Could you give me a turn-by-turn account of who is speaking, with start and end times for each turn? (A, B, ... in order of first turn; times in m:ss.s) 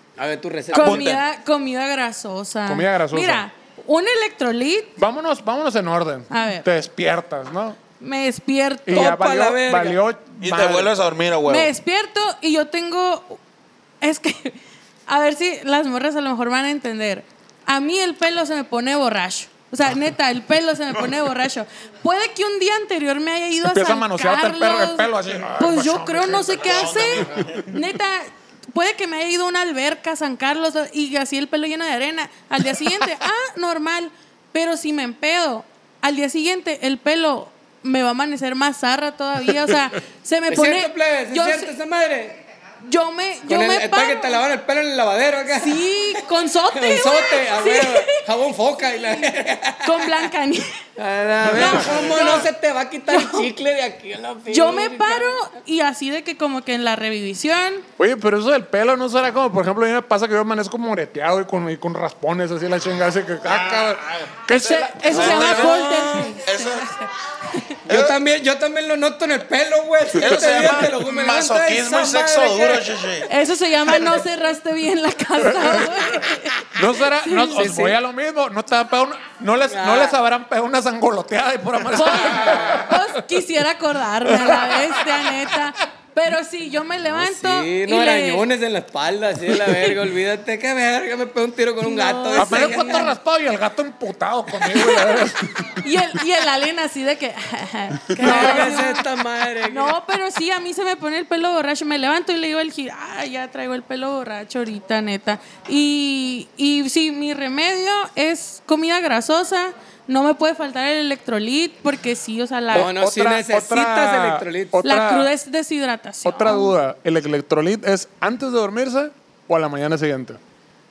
0:00.2-0:01.1 A
0:00.7-0:05.0 B
0:00.8-0:01.2 C
0:02.7-0:03.4 D
0:05.0-0:07.8 D
0:06.3-0:06.7 B
0:08.0-0:09.2 B
0:08.9-0:10.9 D
0:08.9-0:10.0 A
0:10.4-0:11.7 C
0:11.5-0:13.4 B
0:14.0-0:41.7 B
0:23.7-0:27.0 D
0:26.3-0:27.8 C
0:40.5-0:42.4 A
0:42.8-0:44.4 B
0:43.5-0:45.9 A
0:45.5-0:48.2 B
0:46.7-0:50.3 A
0:48.9-0:50.8 B
0:51.0-0:55.4 A
0:51.5-0:52.5 B
0:53.1-0:53.5 B
0:54.5-0:57.8 B
0:58.0-1:05.8 D
1:03.4-1:06.9 C
1:04.9-1:07.8 B
1:05.1-1:06.4 A
1:07.9-1:13.0 A
1:07.9-1:08.2 C
1:10.2-1:13.3 C
1:13.3-1:17.7 B
1:15.4-1:16.1 D
1:16.7-1:23.0 D
1:17.5-1:18.0 A
1:19.7-1:20.2 A
1:21.9-1:28.5 B
1:22.4-1:22.8 A
1:24.3-1:25.5 D
1:27.1-1:33.1 A
1:31.8-1:33.1 B
1:32.4-1:35.8 D
1:34.7-1:35.1 B
1:35.7-1:39.0 B
1:38.2-1:38.7 D
1:38.2-1:40.0 A
1:39.7-1:52.9 B
1:52.7-1:55.3 D
1:52.7-1:54.8 A
1:54.8-1:56.7 B
1:56.2-2:00.4 D